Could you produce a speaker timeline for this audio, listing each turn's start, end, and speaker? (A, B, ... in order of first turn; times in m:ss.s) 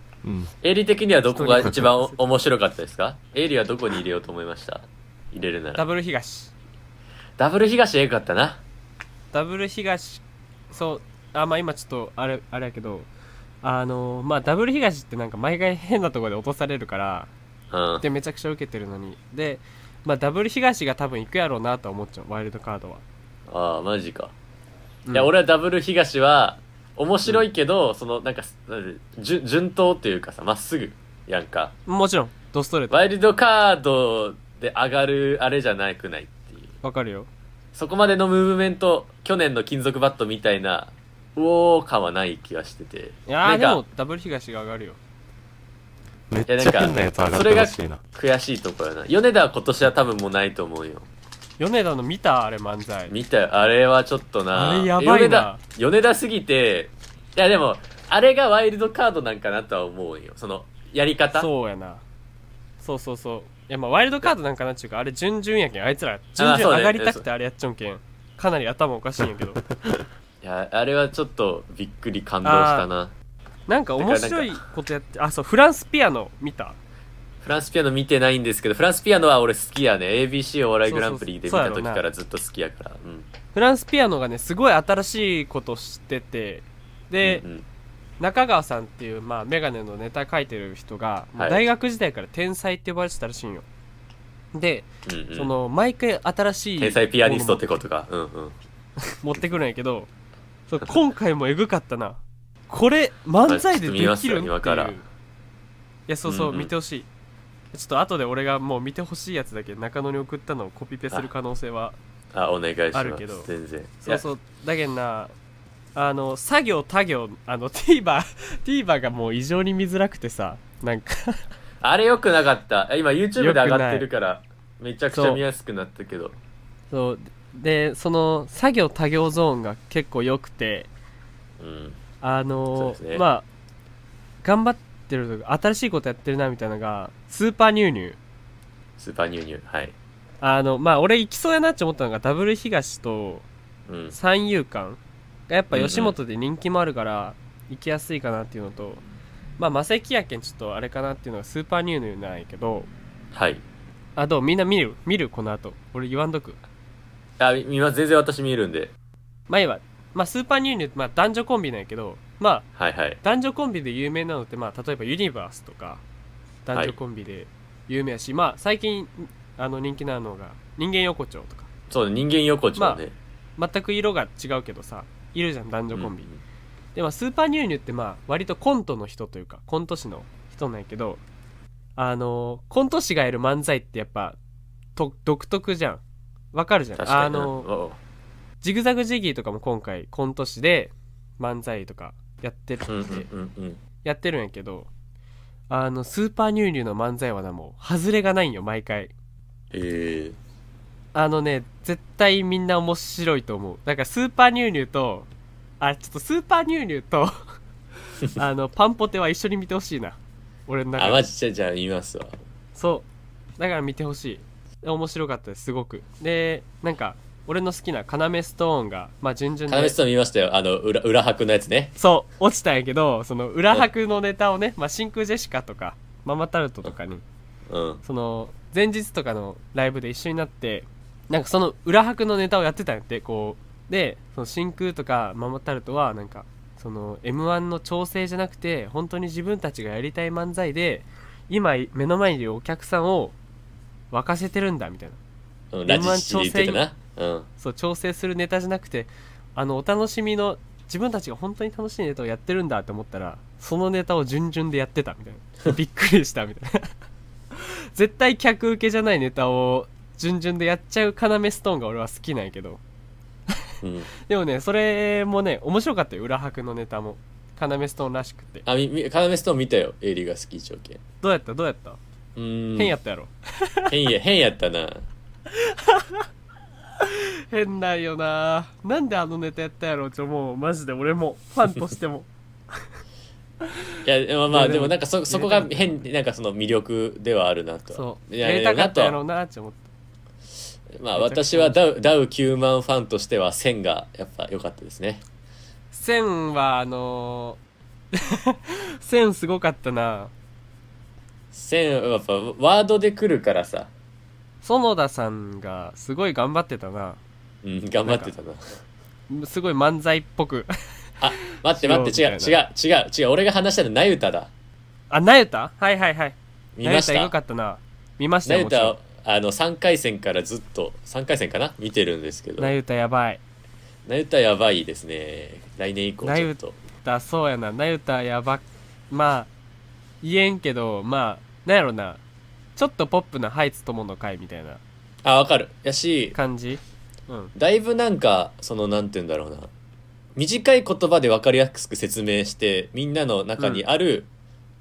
0:00.2-0:00.5 A
0:00.6-0:05.8 B
0:01.3-0:02.2 C
0:05.8-0:06.5 C
0:07.4-0:08.6 B
0:09.3-0:13.1 C
0:13.6-0:17.3 C
0:17.7-0:18.0 B
0:18.0-0:23.0 C
0:23.5-0:24.3 B
0:25.0-0:25.3 C
0:25.1-0:31.7 B
0:31.8-0:33.0 C
0:32.9-0:36.8 B
0:36.8-0:37.3 C
0:37.7-0:43.8 B
0:43.3-0:45.0 C
0:46.3-0:48.0 A
0:46.5-0:51.1 B
0:51.6-0:53.2 C
0:53.1-1:01.5 B
0:54.5-0:55.6 C
1:01.3-1:02.0 C
1:02.8-1:09.6 C
1:06.4-1:07.2 B
1:10.4-1:13.1 B
1:12.4-1:12.8 C
1:13.7-1:16.8 C
1:14.0-1:14.6 B
1:17.4-1:23.3 B
1:20.8-1:22.0 C
1:23.5-1:27.4 C
1:27.2-1:27.6 B
1:28.2-1:33.6 C
1:31.4-1:31.6 B
1:34.5-1:37.6 C
1:35.0-1:35.5 B
1:36.8-1:38.6 B
1:39.2-1:40.1 C
1:40.7-1:45.0 C
1:43.5-1:45.0 B
1:46.1-1:47.1 C
1:46.2-1:46.7 B
1:47.7-1:52.0 C
1:52.3-1:54.2 B
1:52.9-1:53.5 C
1:54.0-1:55.3 C
1:55.9-2:01.5 C
2:01.8-2:06.4 B
2:03.4-2:04.1 C
2:05.1-2:05.4 C
2:06.9-2:10.9 C
2:11.6-2:12.0 B
2:12.2-2:13.4 C
2:12.8-2:13.2 B
2:14.4-2:18.2 C
2:19.0-2:19.9 B
2:20.4-2:23.5 C
2:23.9-2:24.2 B
2:24.1-2:29.0 C
2:25.7-2:26.2 B
2:29.6-2:32.9 C
2:33.3-2:33.6 B
2:34.2-2:36.6 C
2:37.4-2:38.9 B
2:39.5-2:42.7 C
2:42.8-2:43.2 B
2:43.2-2:46.0 C
2:46.6-2:51.7 C
2:51.9-2:53.1 B
2:52.8-2:53.0 C
2:53.6-2:56.3 C
2:55.9-2:56.2 B
2:56.9-3:01.2 C
3:02.0-3:04.4 C
3:05.0-3:06.0 C
3:06.5-3:07.7 C
3:07.0-3:08.0 B
3:08.6-3:13.3 C
3:12.9-3:13.8 B
3:14.0-3:14.9 C
3:15.7-3:19.1 C
3:19.7-3:20.4 B
3:21.1-3:25.3 C
3:25.8-3:27.3 C
3:28.3-3:31.2 C
3:31.0-3:32.4 B
3:32.7-3:33.0 C
3:33.6-3:40.0 C
3:39.7-3:42.0 B
3:42.0-3:47.2 C
3:47.7-3:48.0 B
3:48.0-4:03.4 C
4:04.1-4:05.2 C
4:05.7-4:07.5 B
4:05.8-4:06.8 C
4:07.6-4:16.9 C
4:17.5-4:22.8 C
4:23.8-4:24.1 B
4:24.2-4:28.6 C
4:28.6-4:31.0 B
4:31.2-4:32.0 C
4:32.4-4:32.9 B
4:32.8-4:33.9 C
4:33.9-4:35.0 B
4:35.6-4:36.2 C
4:37.0-4:42.8 C
4:44.0-4:49.2 B
4:44.5-4:46.0 C
4:47.9-4:49.9 C
4:51.0-4:55.2 B
4:51.2-4:51.8 C
4:55.9-4:57.6 C
4:58.1-5:00.3 C
5:01.5-5:03.9 B
5:04.6-5:07.2 C
5:07.6-5:08.8 B
5:08.0-5:08.3 C
5:09.3-5:10.7 C
5:11.2-5:14.5 B
5:11.4-5:12.6 C
5:15.1-5:19.0 C
5:16.8-5:17.3 B
5:18.4-5:22.8 B
5:22.6-5:23.4 C
5:24.0-5:26.8 B
5:26.2-5:29.5 C
5:30.2-5:32.2 C
5:32.8-5:34.8 C
5:35.2-5:36.4 B
5:36.3-5:37.5 C
5:37.6-5:39.7 B
5:40.4-5:44.3 B